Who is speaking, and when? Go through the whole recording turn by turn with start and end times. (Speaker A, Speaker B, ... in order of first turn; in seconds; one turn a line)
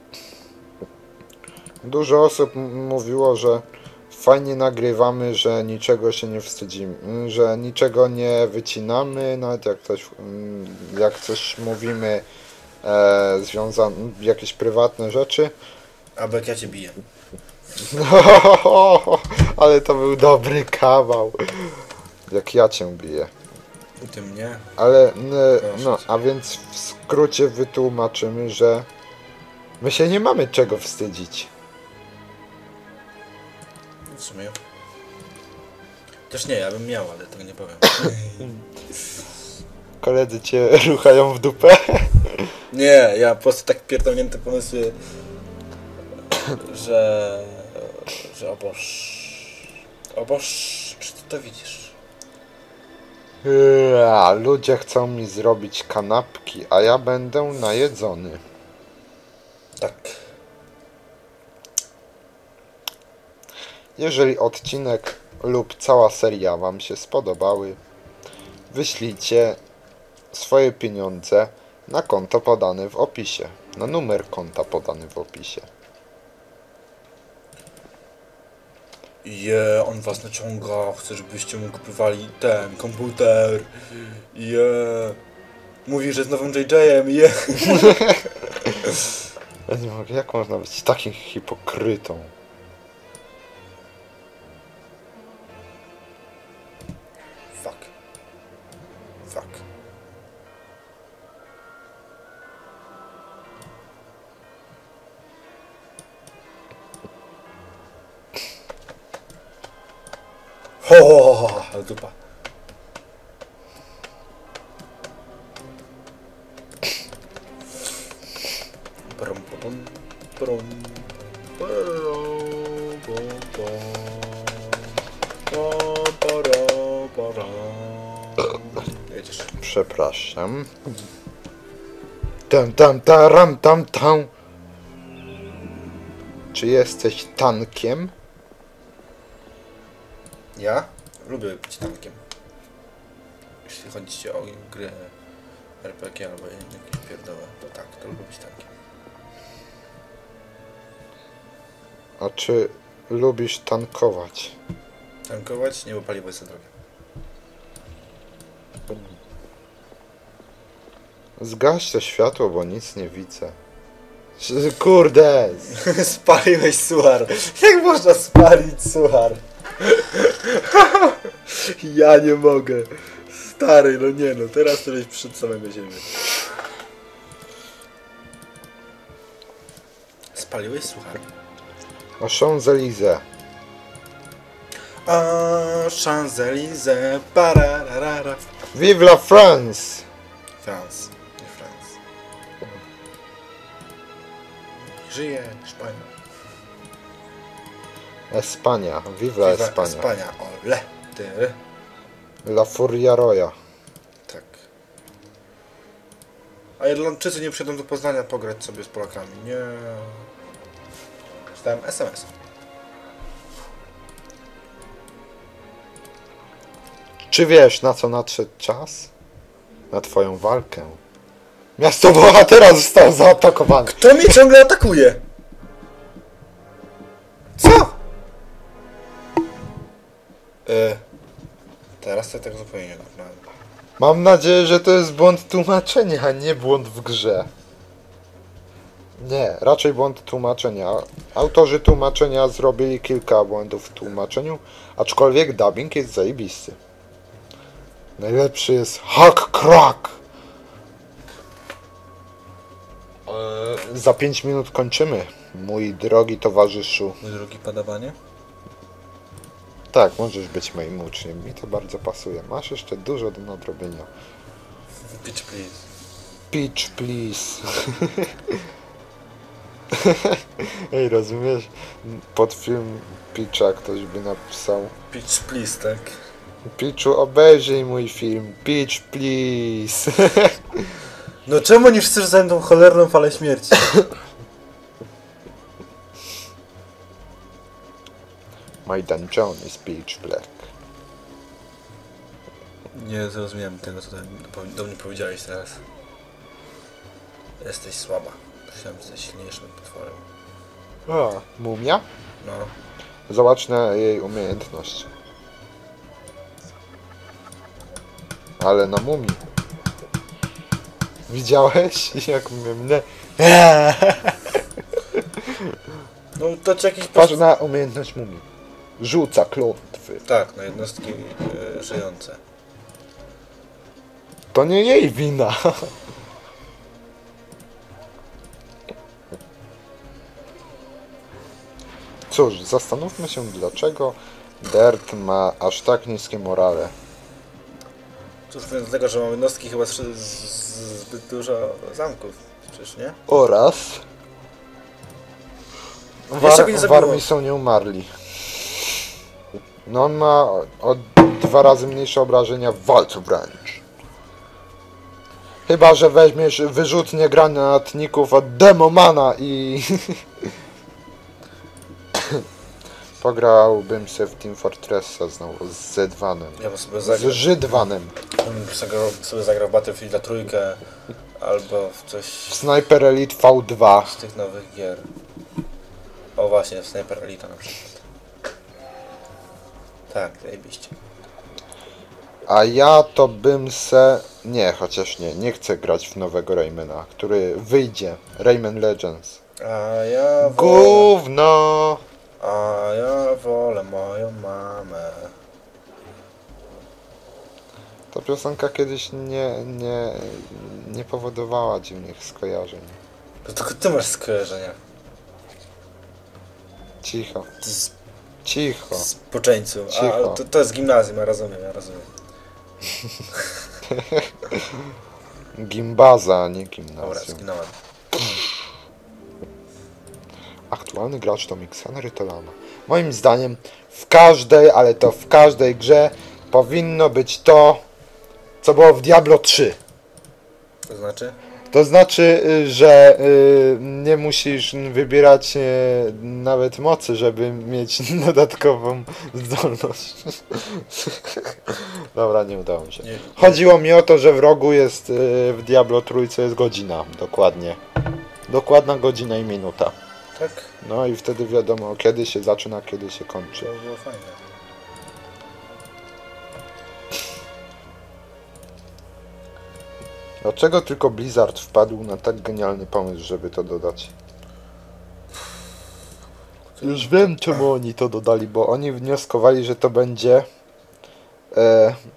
Speaker A: 1.8-12.2
Speaker A: 12.8-15.5
Speaker B: 16.1-17.0
Speaker A: 17.8-23.3
Speaker B: 24.0-24.6
Speaker A: 24.8-28.9
Speaker B: 25.6-26.0
Speaker A: 29.8-31.5
Speaker B: 34.1-34.5
Speaker B: 36.3-38.6
Speaker A: 40.0-42.5
Speaker B: 42.7-45.0
Speaker B: 46.4-51.9
Speaker A: 53.4-58.4
Speaker B: 59.8-60.2
Speaker A: 64.0-67.8
Speaker A: 68.7-69.6
Speaker A: 70.3-75.7
Speaker B: 79.2-83.8
Speaker B: 84.3-85.2
Speaker B: 85.8-88.1
Speaker A: 87.7-88.9
Speaker A: 89.7-92.3
Speaker B: 97.5-97.9
Speaker B: 99.3-99.6
Speaker B: 110.8-112.1
Speaker B: 119.0-124.8
Speaker B: 125.5-129.5
Speaker A: 129.6-130.9
Speaker A: 132.5-134.3
Speaker A: 136.5-138.1
Speaker B: 140.6-142.2
Speaker B: 143.6-145.1
Speaker B: 145.8-148.7
Speaker A: 152.2-154.6
Speaker B: 155.3-156.7
Speaker A: 161.4-163.6
Speaker A: 164.4-165.7
Speaker B: 165.7-176.1
Speaker B: 180.3-181.2
Speaker A: 182.2-183.2
Speaker B: 185.1-188.4
Speaker A: 188.7-190.1
Speaker B: 190.6-192.0
Speaker B: 195.0-196.1
Speaker A: 198.3-200.1
Speaker B: 199.4-201.6
Speaker A: 202.4-203.5
Speaker B: 204.3-204.6
Speaker B: 206.8-210.3
Speaker B: 211.6-212.3
Speaker A: 217.3-219.1
Speaker A: 219.9-221.0
Speaker A: 221.8-224.0
Speaker B: 223.8-225.2
Speaker B: 227.6-227.9
Speaker B: 230.7-231.0
Speaker B: 232.0-233.4
Speaker A: 234.0-237.5
Speaker A: 239.2-246.8
Speaker A: 248.2-250.2
Speaker A: 253.3-257.2
Speaker B: 257.2-258.1
Speaker A: 259.9-264.1
Speaker B: 265.1-265.8
Speaker A: 266.5-268.6
Speaker A: 269.9-274.9
Speaker B: 275.1-276.1
Speaker A: 276.7-281.1
Speaker B: 281.4-284.0
Speaker A: 288.8-290.6
Speaker B: 292.9-295.8
Speaker B: 297.6-300.2
Speaker A: 301.1-302.0
Speaker B: 302.4-302.7
Speaker A: 303.3-305.1
Speaker A: 308.6-309.4
Speaker A: 311.3-314.6
Speaker A: 315.1-315.8
Speaker B: 316.4-317.4
Speaker A: 317.1-318.4
Speaker A: 319.0-320.2
Speaker B: 320.2-322.4
Speaker A: 324.5-325.9
Speaker A: 332.3-336.9
Speaker B: 338.5-343.2
Speaker A: 343.3-344.0
Speaker A: 346.3-348.1
Speaker B: 346.4-347.2
Speaker A: 349.9-353.8
Speaker A: 355.7-360.6
Speaker A: 363.2-368.1
Speaker B: 366.6-367.6
Speaker B: 368.4-370.8
Speaker B: 371.4-372.6
Speaker A: 372.5-374.1
Speaker B: 374.0-375.1
Speaker B: 376.4-378.0
Speaker B: 380.1-380.9
Speaker A: 382.5-389.4
Speaker B: 389.6-391.1
Speaker A: 390.4-392.0
Speaker B: 392.4-395.3
Speaker A: 398.1-403.0
Speaker B: 403.4-404.8
Speaker A: 407.0-407.5
Speaker B: 407.6-407.9
Speaker A: 408.4-409.1
Speaker B: 408.9-412.1
Speaker A: 409.9-410.4
Speaker A: 413.9-414.9
Speaker A: 415.6-417.4
Speaker B: 417.0-417.7
Speaker A: 420.7-427.8
Speaker A: 428.6-429.8
Speaker B: 430.9-431.4
Speaker A: 431.7-447.8
Speaker B: 443.0-443.6
Speaker A: 448.5-449.9
Speaker B: 450.4-450.7
Speaker A: 450.8-453.7
Speaker B: 453.6-454.4
Speaker A: 460.4-464.1
Speaker B: 466.7-467.6
Speaker A: 466.8-470.5
Speaker A: 471.5-472.0